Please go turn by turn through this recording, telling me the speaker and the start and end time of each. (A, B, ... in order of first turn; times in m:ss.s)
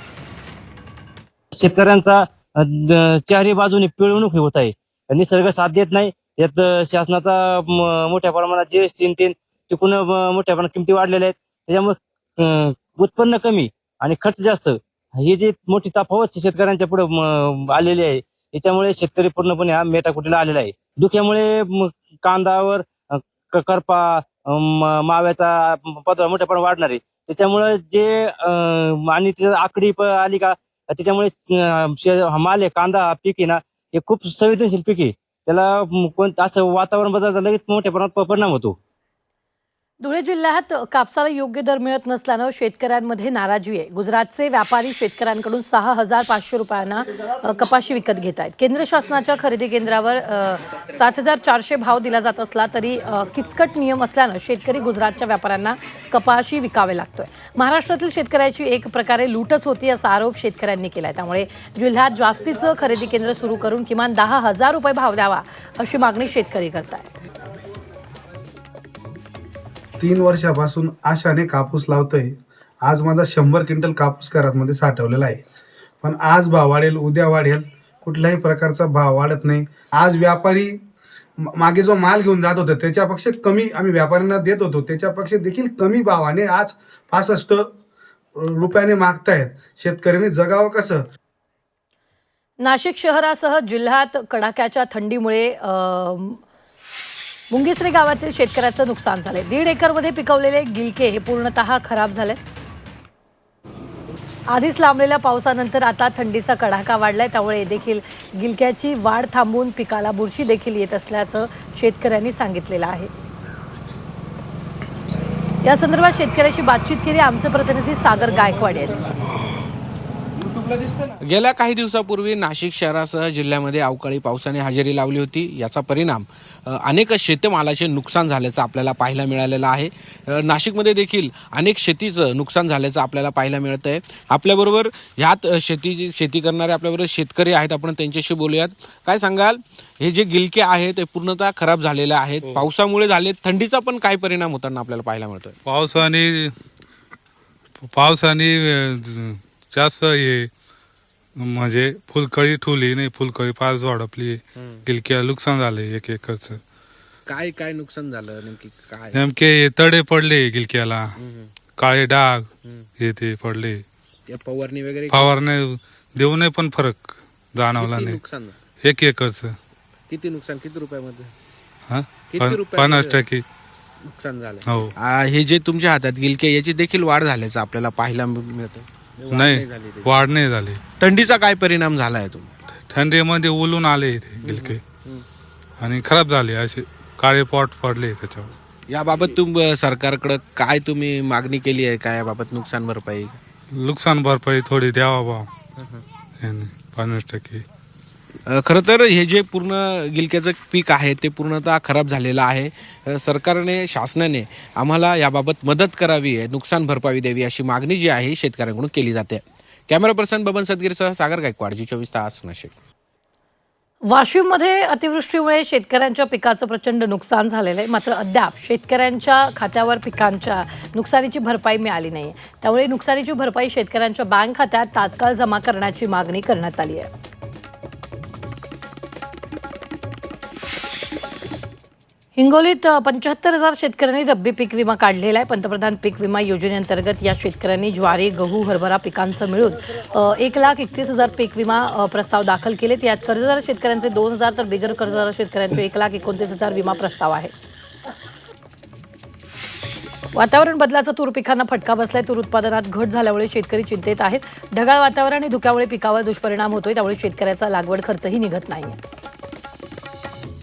0:01.5-0:38.8 A
0:40.0-1:07.1 B
1:10.0-1:15.4 C
1:16.0-1:20.8 C
1:21.4-1:27.7 C
1:28.4-1:31.0 C
1:32.6-1:36.4 B
1:37.5-1:42.4 B
1:44.5-1:53.1 B
1:55.6-1:59.1 B
2:01.1-2:25.6 D
2:25.6-2:26.5 E
2:27.9-2:30.5 E
2:31.4-2:36.6 E
2:34.6-2:34.8 D
2:37.3-2:39.2 D
2:39.1-2:41.1 E
2:41.2-2:41.5 D
2:41.8-2:42.5 E
2:43.0-2:43.8 E
2:44.3-2:45.3 D
2:45.1-2:48.2 E
2:47.8-2:48.6 D
2:48.8-2:49.6 E
2:50.1-2:51.3 D
2:51.9-2:53.4 E
2:52.3-2:53.2 D
2:54.0-3:00.2 D
2:54.6-2:54.9 E
2:59.3-3:00.8 E
3:01.0-3:02.5 D
3:02.9-3:04.8 E
3:04.4-3:05.2 D
3:05.8-3:08.5 E
3:08.9-3:13.4 D
3:13.8-3:15.5 E
3:16.4-3:17.6 E
3:18.5-3:32.7 D
3:34.1-3:47.1 B
3:52.4-4:07.5 B
4:10.3-4:19.0 B